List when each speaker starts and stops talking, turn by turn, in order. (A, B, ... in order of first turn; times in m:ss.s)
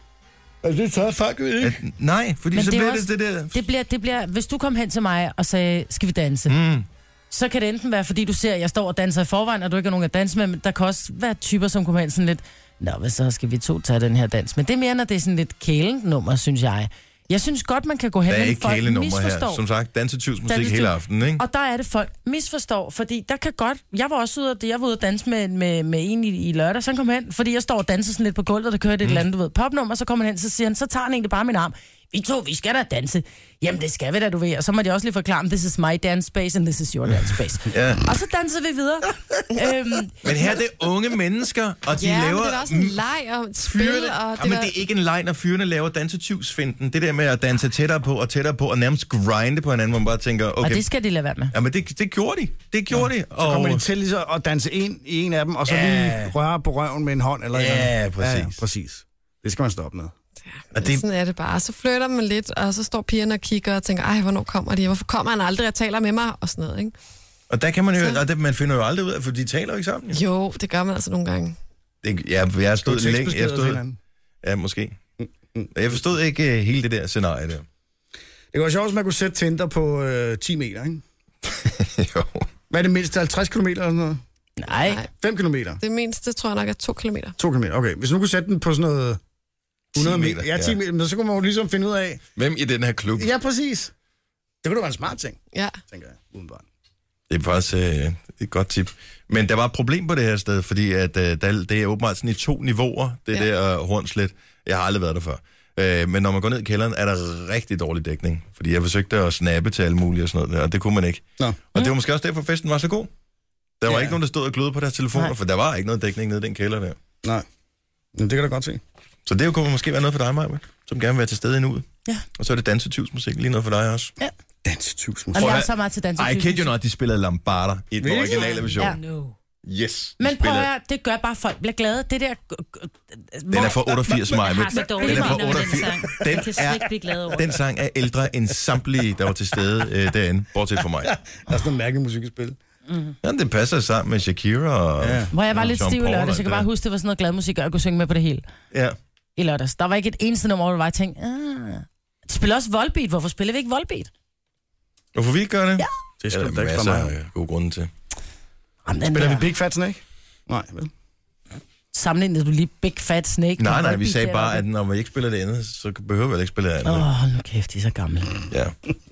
0:00.6-0:01.8 A
0:01.6-0:03.6 B
0:02.5-0:06.6 C
0:06.5-0:06.9 B
0:07.3-0:19.6 C
0:18.3-0:21.4 B
0:20.5-0:40.2 C
0:37.7-0:38.0 B
0:40.2-0:43.0 B
0:42.0-0:44.7 D
0:43.6-0:50.9 B
0:50.6-0:51.5 C
0:51.5-0:53.8 B
0:52.9-1:00.1 A
0:55.7-0:56.3 B
0:57.5-0:58.6 B
1:00.5-1:06.9 D
1:00.7-1:01.0 B
1:07.5-1:10.2 B
1:08.0-1:08.2 D
1:10.1-1:11.6 D
1:12.0-1:13.8 B
1:12.8-1:14.0 A
1:14.4-1:15.0 B
1:15.2-1:16.0 A
1:15.7-1:17.6 B
1:18.5-1:21.0 A
1:21.5-1:22.5 B
1:22.7-1:24.2 A
1:24.6-1:25.0 C
1:24.8-1:25.1 D
1:25.2-1:25.8 A
1:25.8-1:27.4 D
1:27.4-1:29.2 A
1:30.0-1:32.2 A
1:30.0-1:30.8 B
1:32.4-1:33.3 B
1:33.2-1:33.9 A
1:34.6-1:36.6 A
1:35.5-1:35.8 D
1:37.3-1:53.1 B
1:53.8-1:57.0 B
1:53.9-1:54.2 A
1:58.2-1:58.8 A
1:59.3-2:04.1 B
2:04.6-2:05.5 A
2:05.4-2:06.7 C
2:05.4-2:09.0 B
2:08.0-2:08.6 A
2:08.4-2:09.4 E
2:09.6-2:10.7 B
2:10.2-2:14.0 C
2:13.5-2:21.1 B
2:14.4-2:17.5 E
2:15.0-2:15.6 C
2:21.0-2:22.6 A
2:22.9-2:23.2 E
2:23.2-2:26.7 B
2:25.0-2:25.7 A
2:25.3-2:28.4 C
2:29.4-2:34.1 C
2:35.2-2:37.9 B
2:36.2-2:37.1 A
2:38.9-2:39.5 C
2:39.1-2:40.9 A
2:41.9-2:44.6 C
2:43.6-2:47.1 B
2:46.8-2:48.4 C
2:48.5-2:48.8 B